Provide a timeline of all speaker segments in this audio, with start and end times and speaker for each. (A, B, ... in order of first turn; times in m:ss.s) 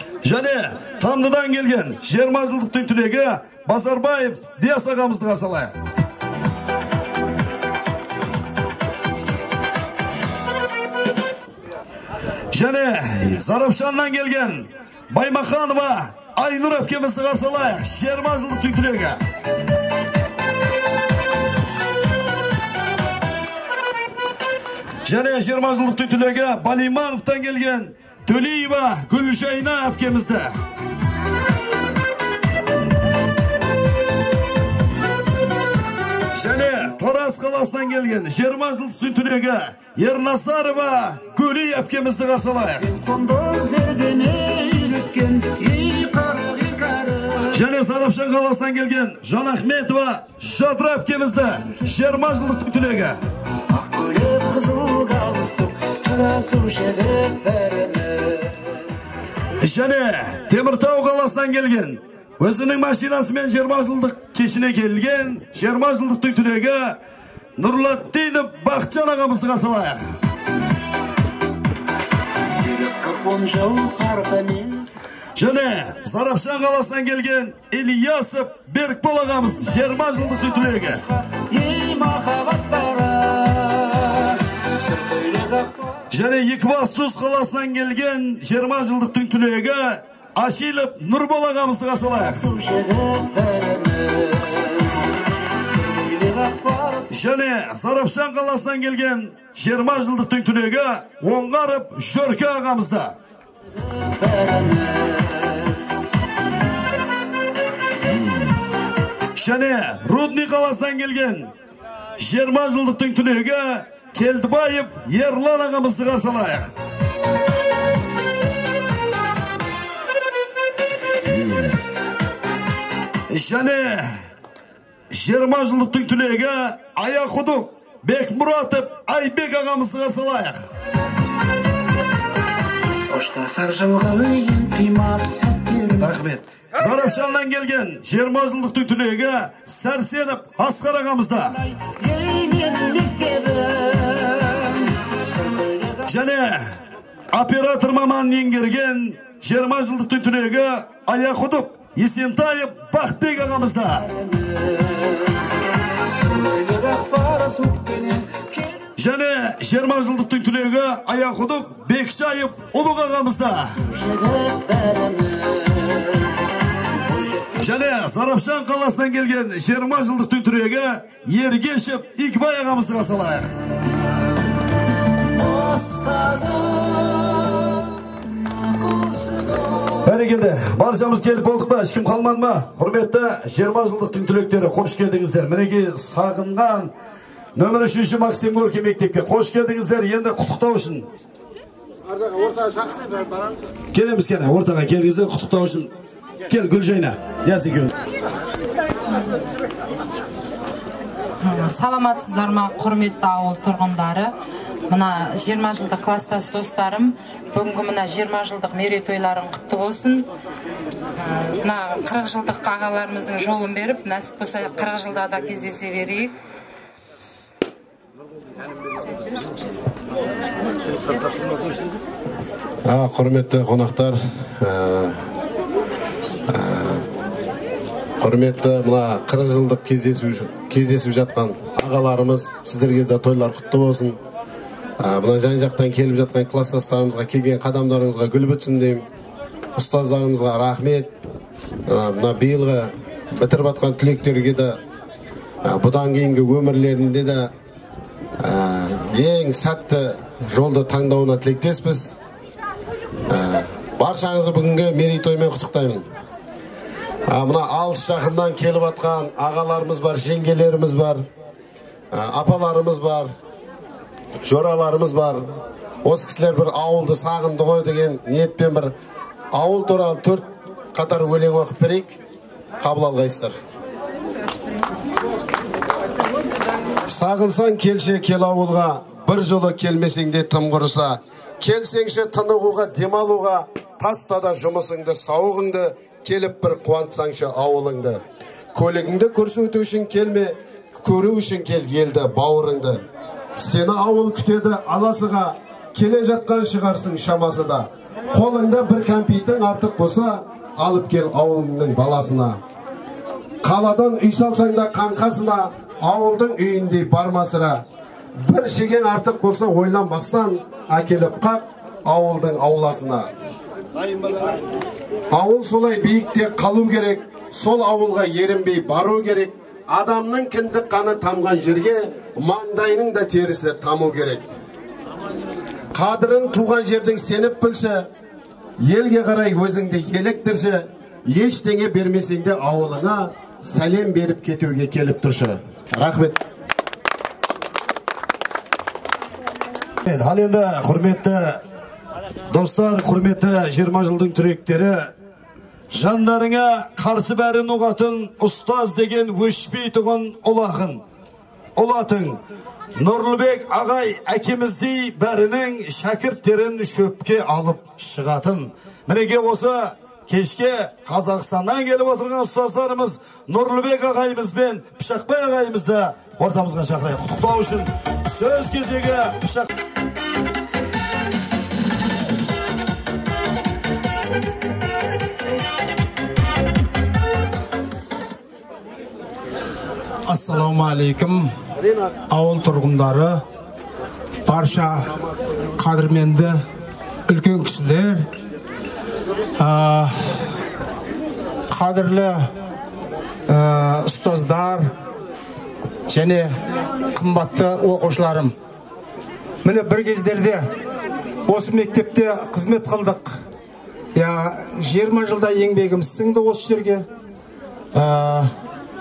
0:00.2-0:05.7 A
0:12.5-0:19.2 A
0:25.0-0:30.6 A
0:36.3-0:42.9 A
0:42.9-0:47.5 B
0:47.5-0:53.2 A
0:53.7-0:58.5 B
0:59.6-1:07.0 A
1:07.6-1:10.0 A
1:12.6-1:14.7 B
1:15.4-1:21.0 A
1:21.5-1:25.7 B
1:26.1-1:32.5 A
1:32.4-1:34.8 B
1:35.8-1:37.0 B
1:37.1-1:43.2 A
1:44.2-1:45.6 B
1:49.3-1:51.5 A
1:52.2-1:56.7 A
2:03.3-2:04.1 A
2:05.1-2:10.6 A
2:13.1-2:16.0 B
2:16.0-2:21.6 A
2:22.0-2:24.7 B
2:25.5-2:25.9 B
2:26.0-2:26.7 A
2:27.3-2:34.1 A
2:36.5-2:38.4 B
2:39.0-2:43.8 A
2:44.0-2:46.0 B
2:47.6-2:53.5 A
2:55.4-2:57.6 B
2:58.8-2:59.7 B
3:00.0-3:06.9 A
3:07.6-3:11.1 A
3:13.9-3:15.9 A
3:16.5-3:17.9 A
3:21.4-3:24.3 C
3:24.9-3:30.2 C
3:31.2-3:36.3 C
3:42.9-3:45.2 D
3:46.5-3:47.0 D
3:48.2-3:54.2 D
3:55.0-3:59.0 D
3:59.8-4:01.1 D
4:01.9-4:04.8 D
4:05.6-4:07.5 D
4:08.4-4:12.1 D
4:13.3-4:16.0 D
4:17.3-4:21.2 D
4:22.1-4:23.3 D
4:24.4-4:25.4 D
4:26.0-4:28.9 D
4:29.5-4:32.2 D
4:32.8-4:33.6 D
4:37.1-4:48.2 D
4:48.7-4:53.0 D
4:53.6-5:02.6 D
5:03.6-5:07.8 D
5:08.4-5:13.3 D
5:15.3-5:24.5 D
5:25.9-5:28.0 D
5:28.8-5:36.4 D
5:40.0-5:41.6 A
5:42.5-5:45.1 A
5:45.9-5:51.0 A
5:51.8-5:52.4 A
5:53.0-6:09.7 A
6:20.3-6:21.5 E
6:22.3-6:23.4 E
6:24.4-6:25.2 E
6:25.8-6:26.6 E
6:27.3-6:28.3 E
6:29.6-6:30.4 E
6:31.7-6:32.5 E
6:33.5-6:34.9 E
6:36.1-6:36.5 E
6:37.1-6:38.5 E
6:39.6-6:40.7 E
6:41.5-6:43.4 E
6:44.1-6:47.0 E
6:47.9-6:48.5 E